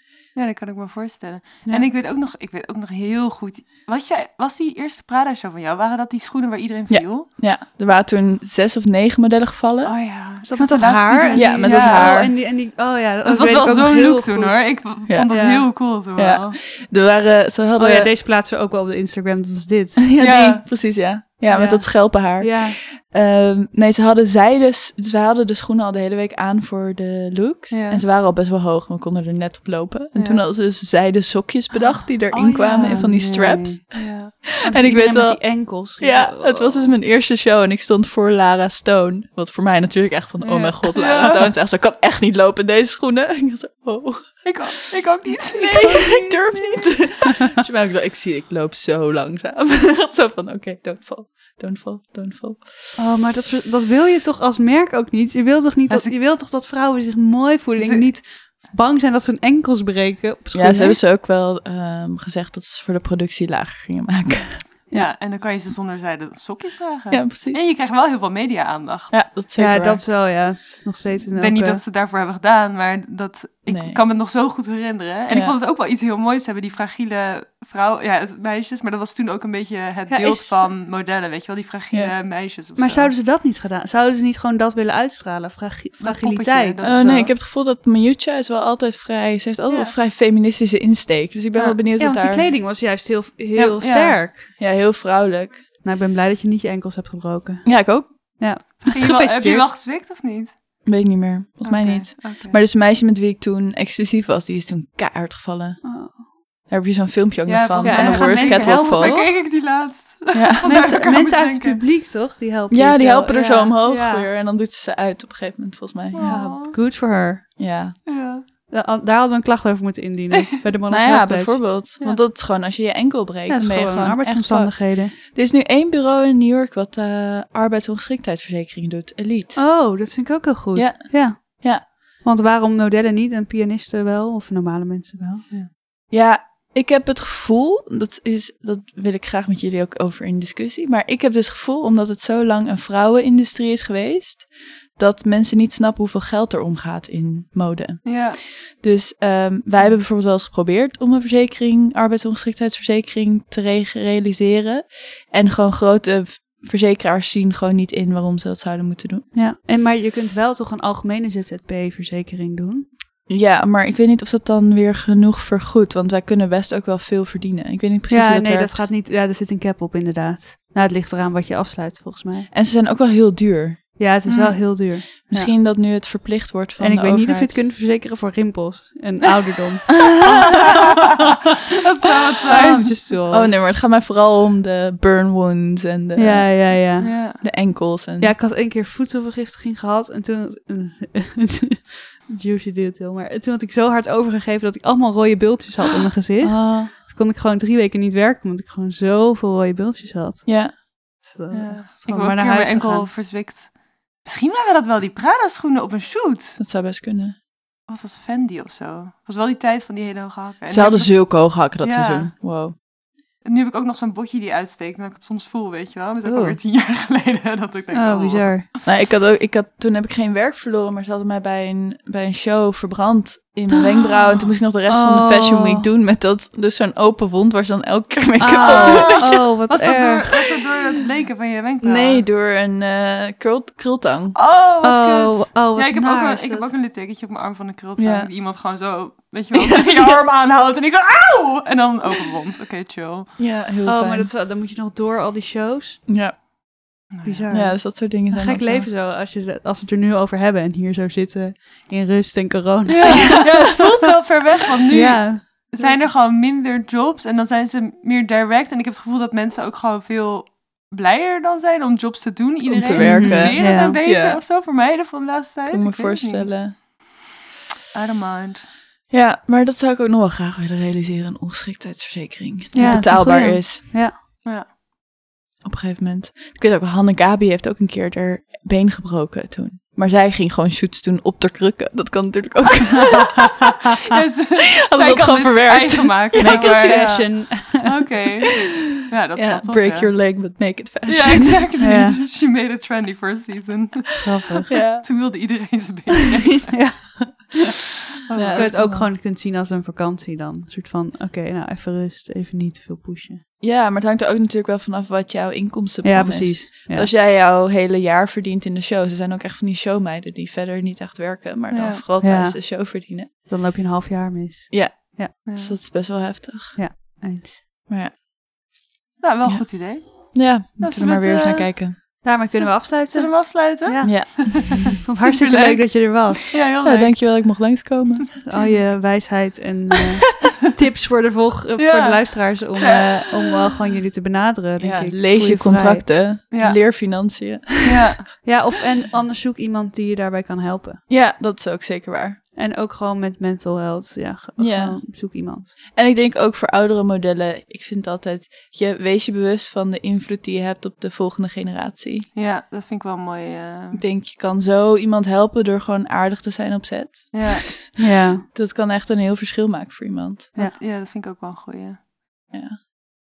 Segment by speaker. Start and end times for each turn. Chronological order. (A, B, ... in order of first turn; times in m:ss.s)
0:00.3-0:07.3 A
0:01.6-0:01.9 B
0:06.9-0:10.1 C
0:09.8-0:12.4 A
0:10.4-0:15.7 B
0:11.3-0:12.4 C
0:13.2-0:16.6 A
0:15.1-0:18.1 C
0:17.8-0:20.0 B
0:20.0-0:52.9 C
0:20.2-0:20.7 A
0:21.5-0:22.8 B
0:27.7-0:28.0 A
0:30.2-0:30.4 A
0:32.3-0:33.2 A
0:32.8-0:37.0 B
0:34.0-0:34.3 A
0:40.4-0:41.4 B
0:40.8-0:41.4 A
0:44.4-0:47.0 A
0:53.0-1:01.0 B
0:57.8-0:58.2 A
1:00.5-1:04.7 C
1:04.9-1:09.3 A
1:07.1-1:07.7 C
1:09.1-1:10.1 C
1:09.6-1:11.8 B
1:11.4-1:23.1 A
1:13.7-1:14.0 C
1:15.3-1:15.6 C
1:20.1-1:20.7 B
1:22.8-1:27.3 B
1:26.0-1:27.3 A
1:26.8-1:32.5 C
1:29.7-1:29.9 B
1:32.0-1:34.5 B
1:33.6-1:34.3 A
1:34.6-1:35.6 C
1:35.8-1:39.7 B
1:37.6-1:38.4 C
1:38.9-1:40.6 A
1:40.8-1:49.8 C
1:41.6-1:42.1 B
1:42.2-1:42.6 A
1:45.8-1:46.3 B
1:47.5-1:51.8 A
1:47.8-1:49.3 B
1:50.3-1:51.0 C
1:50.7-1:54.3 B
1:52.7-1:56.7 C
1:56.1-1:56.8 A
1:56.2-1:58.0 B
1:57.6-1:58.0 C
1:58.1-1:58.4 A
1:58.7-2:02.2 B
2:00.9-2:09.6 C
2:03.5-2:05.1 B
2:09.6-2:15.5 B
2:10.8-2:11.8 C
2:16.1-2:39.3 C
2:28.0-2:28.4 A
2:39.3-2:42.9 B
2:43.3-2:48.7 C
2:48.1-2:52.5 B
2:52.5-2:54.0 C
2:54.0-2:55.6 B
2:54.3-2:54.8 A
2:55.3-2:57.6 C
2:56.8-3:00.4 B
3:01.9-3:03.0 A
3:02.5-3:03.5 B
3:03.3-3:08.4 C
3:06.2-3:07.4 B
3:07.0-3:07.4 A
3:08.2-3:23.1 B
3:16.4-3:16.9 C
3:20.5-3:20.8 C
3:21.5-3:26.6 A
3:26.6-3:27.4 C
3:27.9-3:32.3 A
3:30.7-3:32.8 C
3:33.4-3:38.8 A
3:36.2-3:36.6 B
3:37.9-3:38.7 B
3:38.8-3:49.5 C
3:44.3-3:45.9 B
3:48.4-3:50.4 B
3:48.6-3:52.3 A
3:51.8-3:54.4 C
3:54.4-4:03.4 A
3:54.8-3:56.7 B
3:58.0-3:58.3 C
3:59.6-4:00.2 C
4:03.4-4:04.3 C
4:03.8-4:06.1 B
4:06.1-4:06.4 C
4:07.1-4:07.5 A
4:07.2-4:13.7 B
4:07.5-4:08.9 C
4:12.9-4:26.9 A
4:14.9-4:16.1 B
4:22.7-4:24.4 C
4:23.0-4:24.0 B
4:25.7-4:26.8 C
4:27.9-4:28.7 A
4:29.1-4:34.0 C
4:32.7-4:33.2 A
4:32.8-4:34.2 B
4:34.4-4:34.7 A
4:35.6-4:43.5 C
4:44.1-4:50.5 A
4:44.7-4:47.3 C
4:46.4-4:47.9 B
4:49.4-4:52.0 C
4:51.1-4:57.4 A
4:51.8-4:52.2 B
4:54.2-4:54.7 B
4:54.7-4:55.7 C
4:56.7-4:57.6 B
4:58.2-4:58.9 A
4:58.3-4:59.1 C
4:58.5-5:03.4 B
5:03.6-5:13.3 C
5:06.0-5:07.1 B
5:11.7-5:12.0 A
5:12.2-5:15.3 B
5:14.7-5:17.2 C
5:15.5-5:15.8 A
5:16.8-5:17.6 B
5:17.9-5:18.1 C
5:19.2-5:22.2 A
5:19.5-5:22.2 C
5:22.2-5:26.5 B
5:23.1-5:24.7 A
5:24.0-5:25.0 C
5:25.2-5:28.8 A
5:26.8-5:28.4 C
5:28.5-5:36.2 B
5:31.8-5:33.6 A
5:34.8-5:38.2 C
5:36.5-5:38.3 A
5:38.4-5:41.0 B
5:41.1-5:42.4 C
5:42.6-5:45.8 B
5:44.6-5:52.3 C
5:52.4-5:54.0 A
5:53.9-6:00.5 C
5:57.3-5:57.8 A
5:58.0-5:58.4 B
6:00.6-6:02.0 A
6:02.5-6:02.8 C